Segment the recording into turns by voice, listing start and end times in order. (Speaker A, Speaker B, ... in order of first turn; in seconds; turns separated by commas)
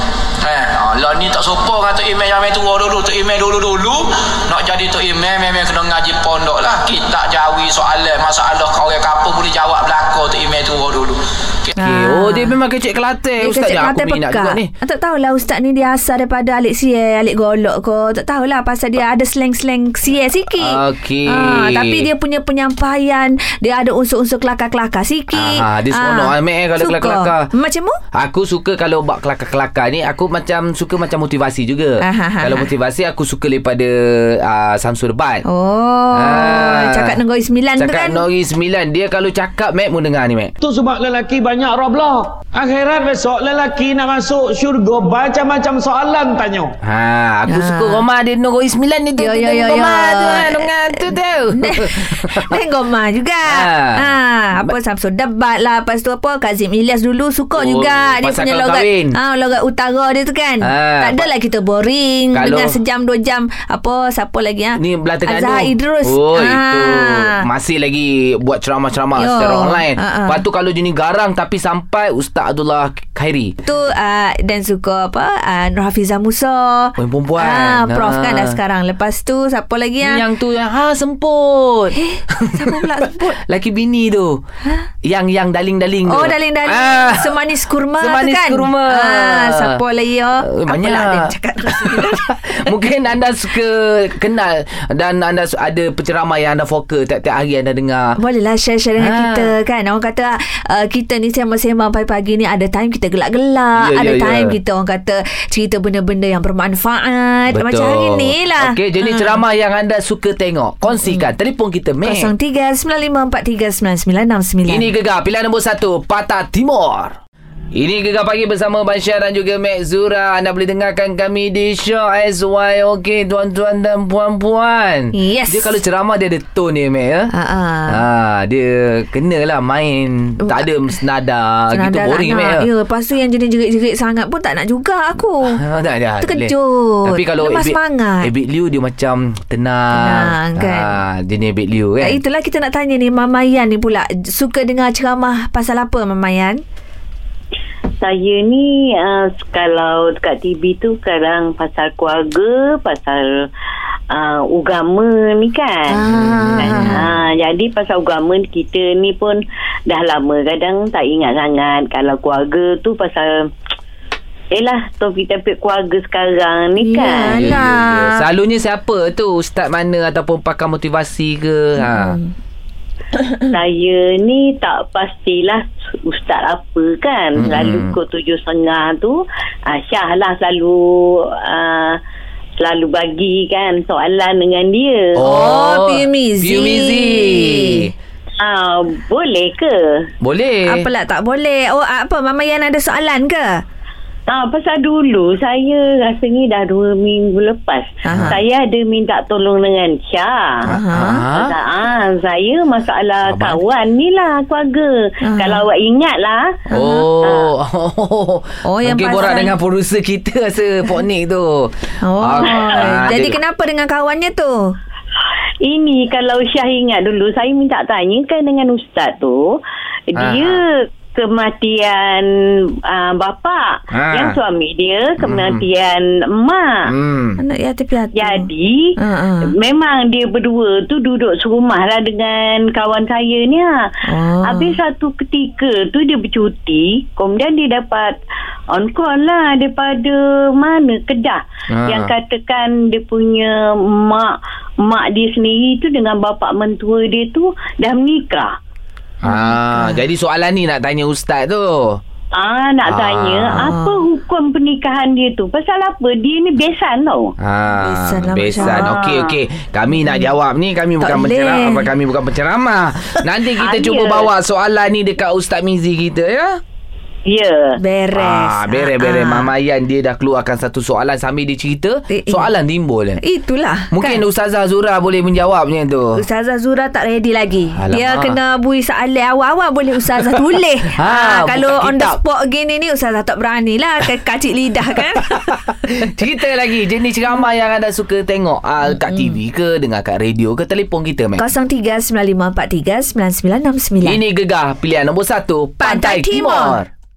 Speaker A: 0.4-11.2, Speaker B: 11.8-12.6, Speaker C: 11.8-14.7, Speaker B: 13.4-28.0, Speaker C: 20.6-22.1, Speaker C: 25.3-27.5, Speaker C: 28.1-35.4, Speaker B: 32.0-32.7, Speaker B: 35.5-38.2, Speaker C: 36.1-37.2, Speaker C: 37.8-40.5, Speaker D: 40.6-46.7, Speaker C: 46.8-52.6, Speaker B: 47.5-48.0, Speaker B: 49.2-50.7, Speaker B: 51.5-67.4, Speaker C: 53.5-54.1, Speaker C: 57.5-59.1, Speaker C: 60.6-61.3, Speaker C: 62.3-62.7, Speaker C: 64.8-73.5, Speaker B: 69.2-70.4, Speaker B: 73.6-80.2, Speaker C: 77.0-78.6, Speaker C: 80.0-84.4, Speaker B: 81.9-83.4, Speaker C: 85.0-87.3, Speaker B: 86.1-92.2, Speaker C: 88.0-89.8, Speaker C: 90.4-98.2, Speaker B: 98.2-109.4, Speaker C: 99.0-99.5, Speaker C: 103.8-104.5, Speaker C: 107.5-112.3, Speaker B: 110.9-111.3, Speaker B: 112.0-114.9, Speaker C: 114.7-117.2, Speaker C: 117.7-127.3, Speaker B: 125.1-125.8, Speaker B: 127.3-128.0, Speaker C: 127.9-132.7, Speaker B: 131.7-135.6, Speaker C: 135.5-142.2, Speaker B: 136.2-138.3, Speaker B: 139.9-140.9, Speaker B: 142.0-146.6, Speaker E: 148.0-153.5, Speaker E: 154.1-156.0, Speaker B: 155.9-157.0, Speaker C: 156.1-157.1, Speaker E: 156.6-163.5, Speaker E: 164.5-167.6, Speaker B: 166.8-168.2, Speaker C: 167.2-172.2, Speaker B: 171.8-172.3, Speaker E: 173.5-182.0, Speaker C: 177.4-177.9, Speaker E: 182.6-185.1, Speaker C: 185.1-187.9, Speaker B: 185.2-187.9, Speaker E: 188.4-190.1, Speaker C: 190.2-190.8, Speaker B: 190.7-193.6, Speaker E: 194.3-200.6, Speaker B: 198.0-198.4, Speaker C: 198.1-198.4, Speaker B: 200.7-201.2, Speaker C: 200.7-201.5, Speaker E: 201.3-206.6, Speaker C: 203.2-203.6, Speaker B: 205.2-205.6, Speaker B: 206.7-207.1, Speaker C: 206.7-213.4, Speaker E: 207.2-207.5, Speaker B: 208.7-209.5, Speaker B: 212.0-214.7, Speaker E: 215.6-219.6, Speaker E: 220.1-222.3, Speaker C: 220.2-220.6, Speaker E: 222.8-226.9, Speaker C: 223.9-224.4, Speaker C: 225.2-225.6, Speaker C: 226.8-227.4, Speaker B: 227.4-229.5, Speaker E: 228.2-228.9, Speaker E: 229.5-233.9, Speaker B: 234.1-234.7, Speaker E: 234.4-238.2, Speaker E: 238.7-248.6, Speaker C: 241.7-242.1, Speaker C: 249.2-252.0, Speaker B: 249.2-250.0, Speaker E: 252.4-257.3, Speaker C: 252.9-253.7, Speaker B: 253.6-254.0, Speaker C: 257.4-266.6, Speaker B: 257.8-259.0, Speaker E: 258.6-259.3, Speaker B: 261.0-261.9, Speaker E: 263.6-264.3, Speaker E: 267.3-267.7, Speaker B: 267.8-269.5, Speaker C: 268.1-273.2, Speaker B: 272.1-272.5, Speaker B: 273.2-274.2, Speaker C: 273.9-276.2, Speaker B: 276.2-285.6, Speaker C: 277.8-278.4, Speaker C: 280.9-282.2, Speaker C: 285.1-291.4, Speaker B: 289.0-289.3, Speaker B: 291.4-294.2, Speaker C: 294.0-296.9, Speaker B: 295.8-296.8